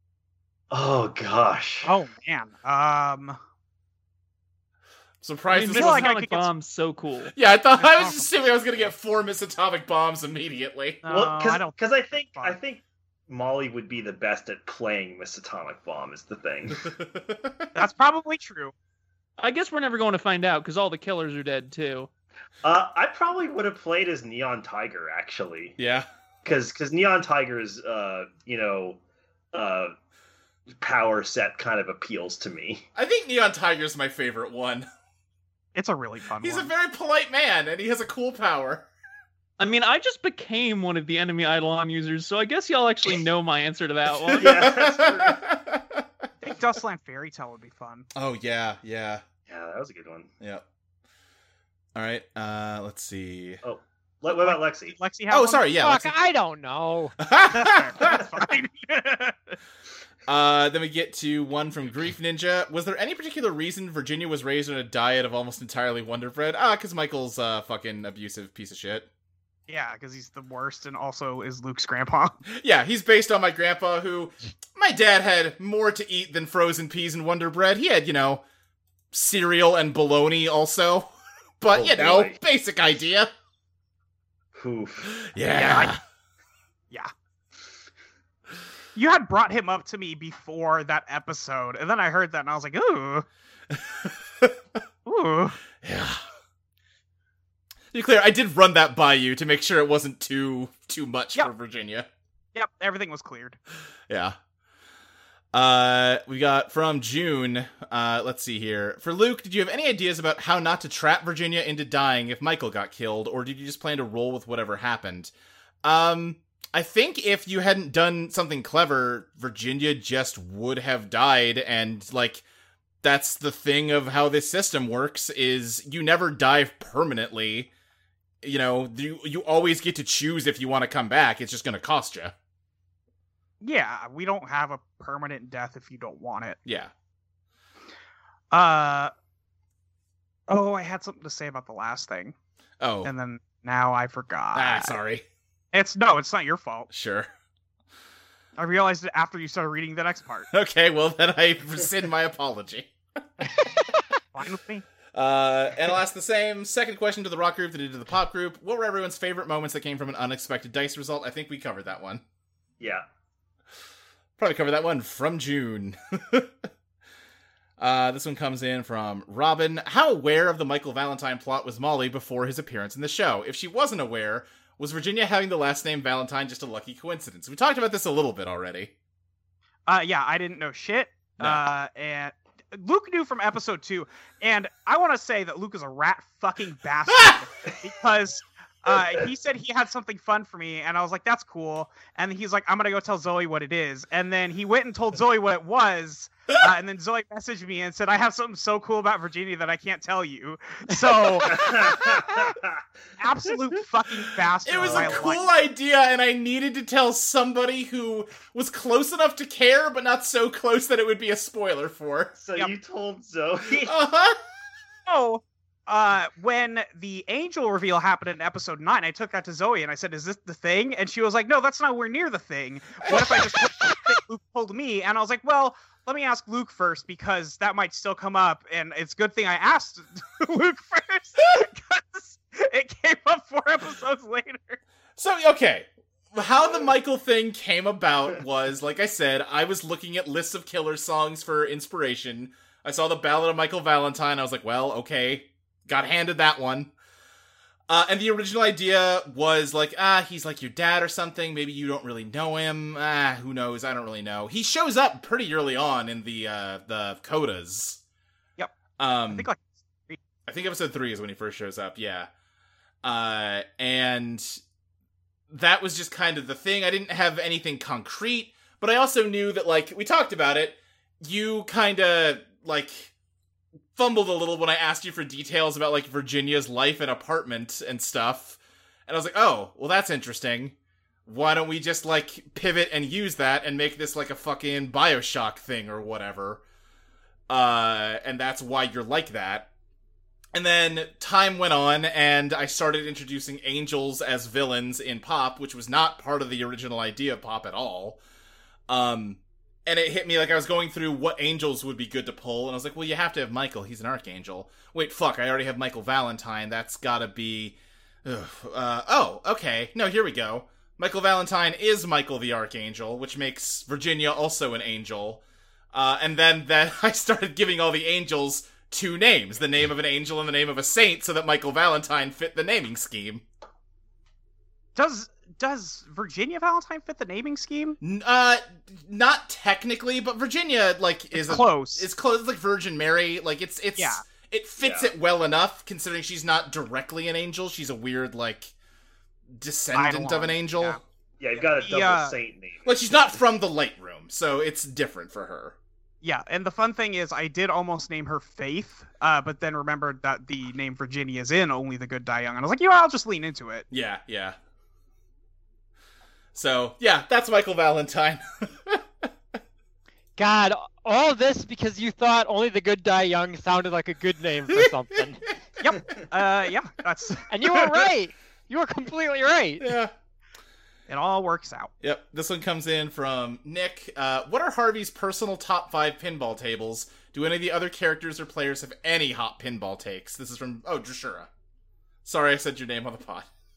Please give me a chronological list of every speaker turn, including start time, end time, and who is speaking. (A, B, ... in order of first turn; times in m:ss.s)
0:00.7-0:02.0 A
0:01.8-0:03.4 B
0:05.2-0:06.1 C
0:05.5-0:07.3 D
0:05.6-0:06.5 B
0:07.3-0:11.0 C
0:07.8-0:08.3 B
0:11.0-0:12.6 B
0:11.1-0:16.9 A
0:16.9-0:17.7 C
0:17.8-0:18.7 B
0:19.4-0:22.1 D
0:22.6-0:25.8 A
0:25.8-0:26.1 C
0:26.4-0:29.0 A
0:29.5-0:30.0 A
0:30.8-0:32.9 A
0:33.0-0:34.9 C
0:35.8-0:36.7 B
0:36.4-0:38.9 C
0:39.6-0:44.6 D
0:44.4-0:45.4 A
0:44.4-0:46.3 C
0:46.4-0:48.1 B
0:48.2-0:49.2 C
0:49.5-0:50.3 A
0:52.0-0:53.6 C
0:53.6-0:55.0 A
0:54.4-0:55.7 B
0:55.3-0:56.1 C
0:55.8-0:57.2 E
0:57.2-0:58.2 C
0:57.5-0:59.6 B
1:00.3-1:09.1 C
1:09.7-1:12.4 B
1:12.5-1:18.4 C
1:19.1-1:23.3 C
1:21.7-1:22.4 A
1:24.6-1:25.3 A
1:25.2-1:26.0 C
1:25.5-1:25.9 B
1:29.0-1:33.3 B
1:33.7-1:34.6 C
1:35.1-1:35.6 B
1:35.8-1:36.2 C
1:37.9-1:42.1 C
1:42.6-1:43.6 B
1:44.1-1:44.4 C
1:45.5-1:55.3 C
1:55.8-2:02.4 C
2:03.0-2:07.7 C
2:08.4-2:12.3 C
2:13.6-2:16.6 B
2:16.6-2:16.9 C
2:18.5-2:19.1 B
2:20.5-2:22.3 B
2:22.8-2:23.1 C
2:23.0-2:25.0 B
2:24.5-2:25.3 C
2:25.7-2:26.9 B
2:26.9-2:27.3 C
2:28.6-2:30.5 B
2:30.5-2:33.5 C
2:34.3-2:34.9 B
2:35.1-2:42.2 C
2:44.4-2:46.7 C
2:47.8-2:58.9 C
2:59.9-3:22.6 B
3:21.4-3:22.8 A
3:23.2-3:25.5 B
3:24.6-3:32.4 C
3:24.7-3:25.4 A
3:32.4-3:34.0 A
3:33.8-3:34.4 C
3:35.1-3:54.8 B
3:55.2-4:06.9 C
4:07.9-4:18.0 C
4:19.0-4:19.5 C
4:19.3-4:20.2 B
4:20.5-4:22.3 C
4:23.0-4:24.6 C
4:25.5-4:33.1 C
4:34.0-4:40.8 C
4:41.3-4:46.6 C
4:47.5-4:49.7 C
4:50.5-4:58.2 C
4:58.9-5:15.4 C
5:15.9-5:23.4 C
5:25.0-5:28.0 B
5:28.0-5:38.7 C
5:31.4-5:32.1 B
5:34.0-5:34.2 B
5:34.8-5:35.1 A
5:39.6-5:41.0 C
5:39.9-5:41.0 B
5:41.4-5:43.0 A
5:41.6-5:42.4 B
5:42.8-5:45.8 C
5:46.2-5:53.9 B
5:53.9-5:54.6 C
5:56.5-5:59.3 C
6:00.4-6:05.4 E
6:05.8-6:07.5 B
6:07.5-6:10.0 E
6:09.8-6:10.1 C
6:11.1-6:11.9 B
6:12.0-6:21.5 C
6:22.2-6:23.5 C